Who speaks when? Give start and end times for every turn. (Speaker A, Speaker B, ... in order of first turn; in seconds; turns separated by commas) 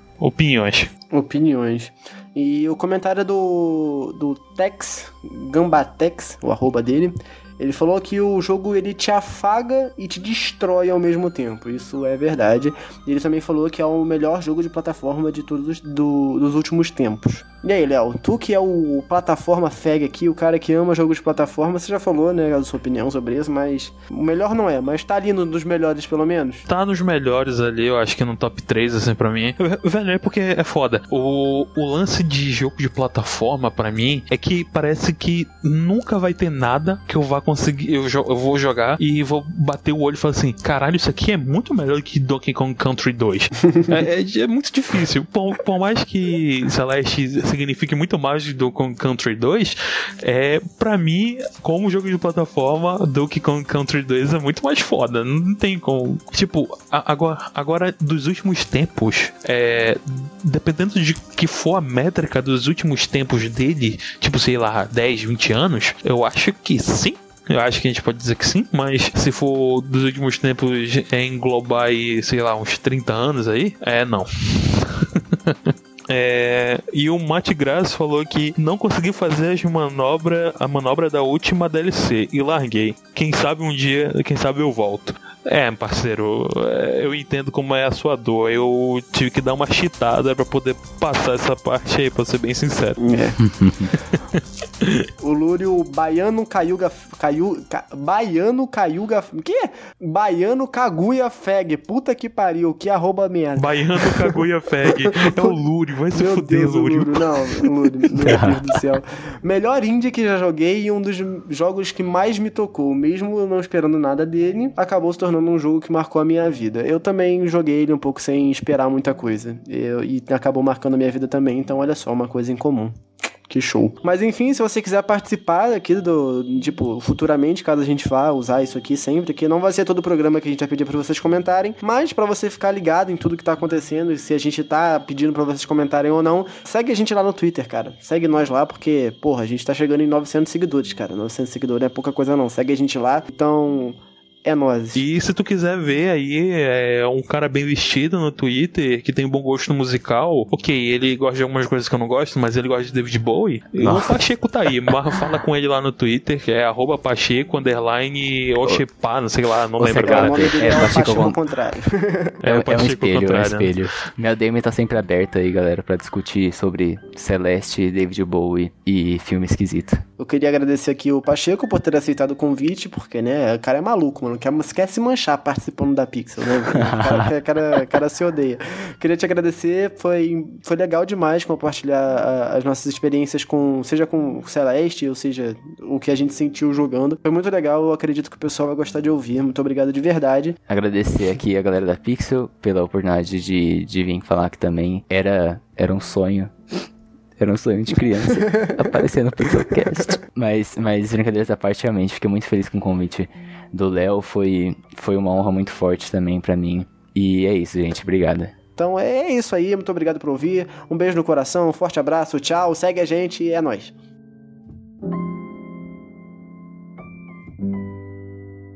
Speaker A: 0.2-0.9, Speaker B: 1.1-26.6, Speaker A: 26.6-93.0, Speaker B: 93.0-93.4, Speaker C: 93.4-93.9, Speaker A: 94.0-95.1, Speaker B: 95.2-105.5, Speaker A: 103.5-107.6, Speaker B: 106.1-123.0, Speaker C: 108.3-108.6, Speaker B: 123.5-145.0, Speaker A: 144.9-160.5, Speaker C: 153.8-154.2, Speaker C: 154.9-155.3, Speaker C: 159.8-161.4, Speaker B: 160.0-162.3, Speaker A: 162.4-163.7, Speaker C: 162.4-170.0, Speaker B: 170.2-190.6, Speaker C: 176.7-177.3, Speaker C: 190.7-196.5, Speaker C: 197.4-208.5, Speaker B: 198.4-198.8, Speaker B: 208.8-213.9